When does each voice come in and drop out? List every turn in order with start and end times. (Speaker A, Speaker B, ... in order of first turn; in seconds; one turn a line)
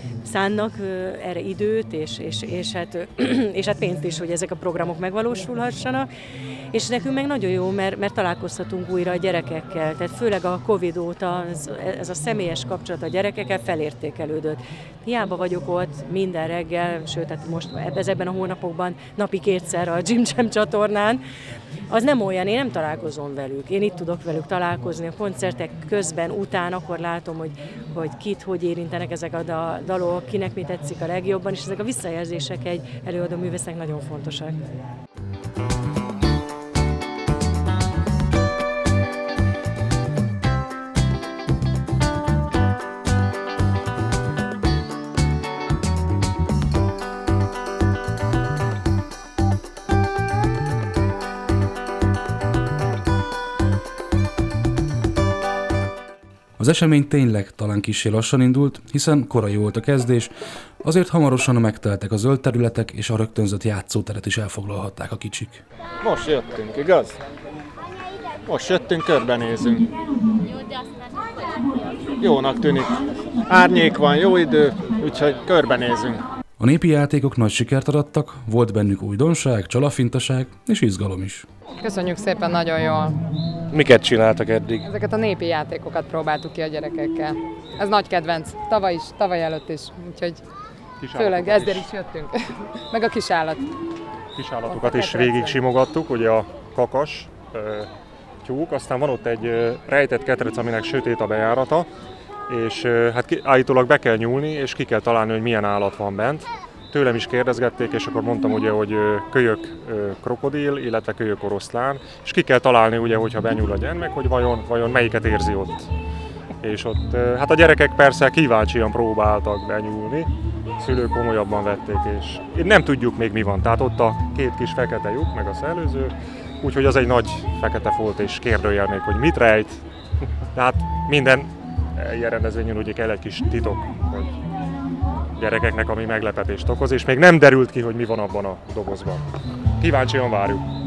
Speaker A: 0.2-6.1
Speaker A: 6.7-21.2
Speaker A: 21.9-34.6
Speaker B: 56.6-60.3
Speaker B: 60.8-65.6
Speaker C: 66.0-67.2
Speaker C: 68.5-69.9
Speaker C: 72.2-76.2
Speaker B: 76.6-81.5
Speaker D: 81.8-83.2
Speaker C: 83.7-84.8
Speaker D: 84.8-90.4
Speaker E: 91.0-91.9
Speaker D: 91.2-92.4
Speaker D: 92.9-93.6
Speaker E: 94.4-97.9
Speaker D: 94.7-95.6
Speaker E: 98.4-101.9
Speaker E: 102.5-115.9
Speaker E: 116.6-129.8
Speaker E: 130.5-134.3
Speaker E: 135.4-139.2
Speaker E: 139.8-140.7